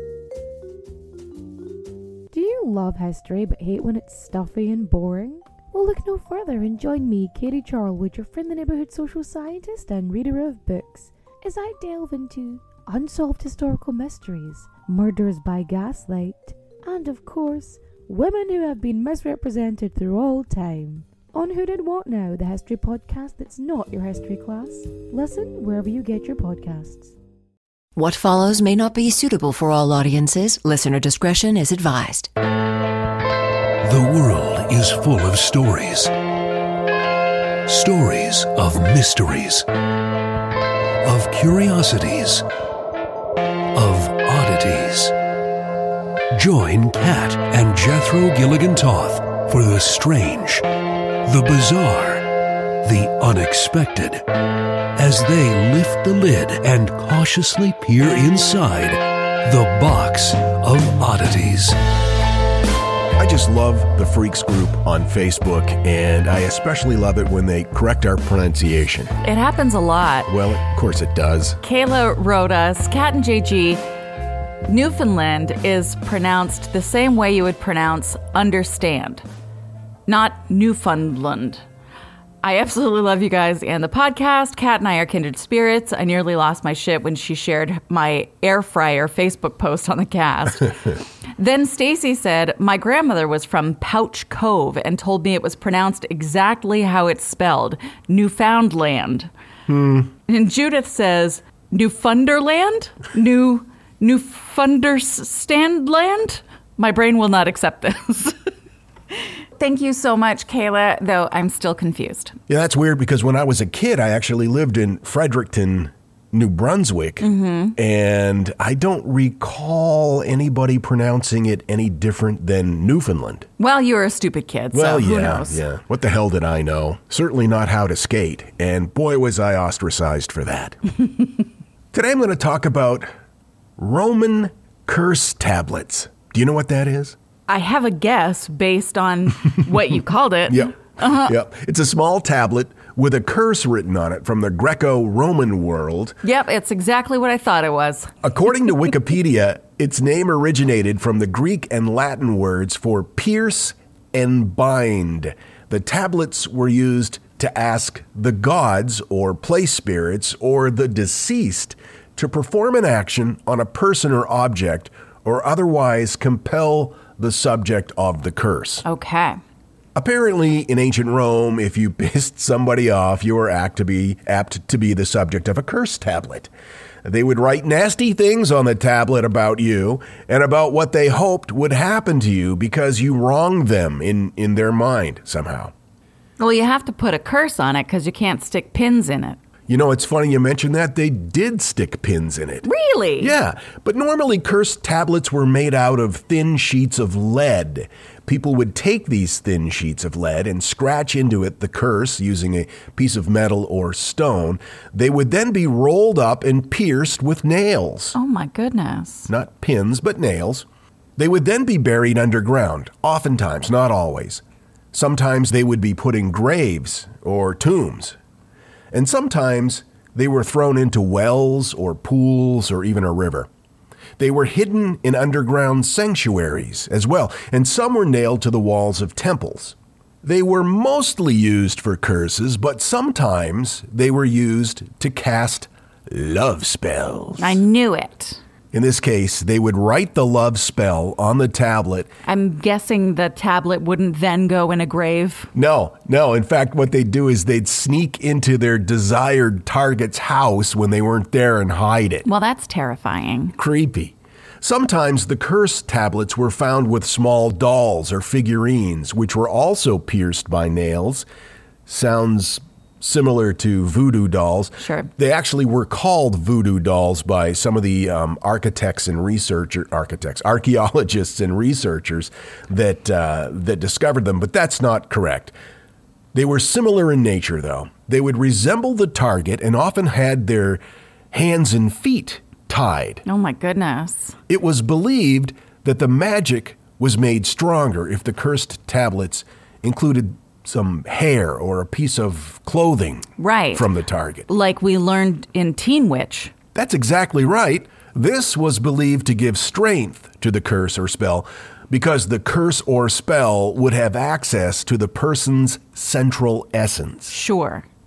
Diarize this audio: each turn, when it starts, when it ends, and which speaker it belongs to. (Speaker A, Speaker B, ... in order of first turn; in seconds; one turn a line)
Speaker A: 2.3-27.1
Speaker B: 27.9-32.3
Speaker C: 33.8-36.1
Speaker C: 37.6-39.6
Speaker C: 41.0-42.4
Speaker C: 43.7-45.1
Speaker C: 46.3-50.6
Speaker C: 51.2-52.2
Speaker C: 52.8-54.2
Speaker C: 55.0-61.8
Speaker D: 63.1-69.1
Speaker E: 69.2-70.3
Speaker D: 70.3-71.6
Speaker E: 71.6-73.8
Speaker E: 74.7-79.2
Speaker E: 80.1-81.6
Speaker E: 82.4-99.3
Speaker D: 99.7-100.1
Speaker E: 100.3-108.4
Speaker E: 109.6-112.3
Speaker D: 112.5-123.5
Speaker E: 117.2-117.8
Speaker E: 123.6-125.6
Speaker D: 124.7-130.8
Speaker D: 131.9-133.1
Speaker D: 133.8-137.2
Speaker E: 137.5-141.3
Speaker D: 140.5-146.2
Speaker E: 146.2-148.1
Speaker D: 148.2-168.8
Speaker E: 168.8-169.4
Speaker D: 169.9-176.5
Speaker D: 177.0-185.7
Speaker E: 186.4-189.4
Speaker D: 189.7-192.7
Speaker E: 192.6-193.3
Speaker D: 193.2-208.2
Speaker E: 208.1-209.3
Speaker D: 209.3-210.7
Speaker D: 211.2-214.4
Speaker D: 214.9-218.2
Speaker D: 218.9-223.5
Speaker D: 224.2-237.6
Speaker E: 237.4-238.4
Speaker D: 238.7-242.1
Speaker E: 242.2-245.5
Speaker D: 245.5-252.2
Speaker E: 252.2-253.5
Speaker D: 253.6-261.2
Speaker D: 261.9-275.5
Speaker E: 264.8-265.1
Speaker D: 276.3-280.8
Speaker D: 281.3-283.2
Speaker E: 283.2-284.4
Speaker D: 284.5-294.5
Speaker E: 293.4-293.8
Speaker E: 294.5-296.5
Speaker D: 296.7-307.4
Speaker E: 307.3-307.8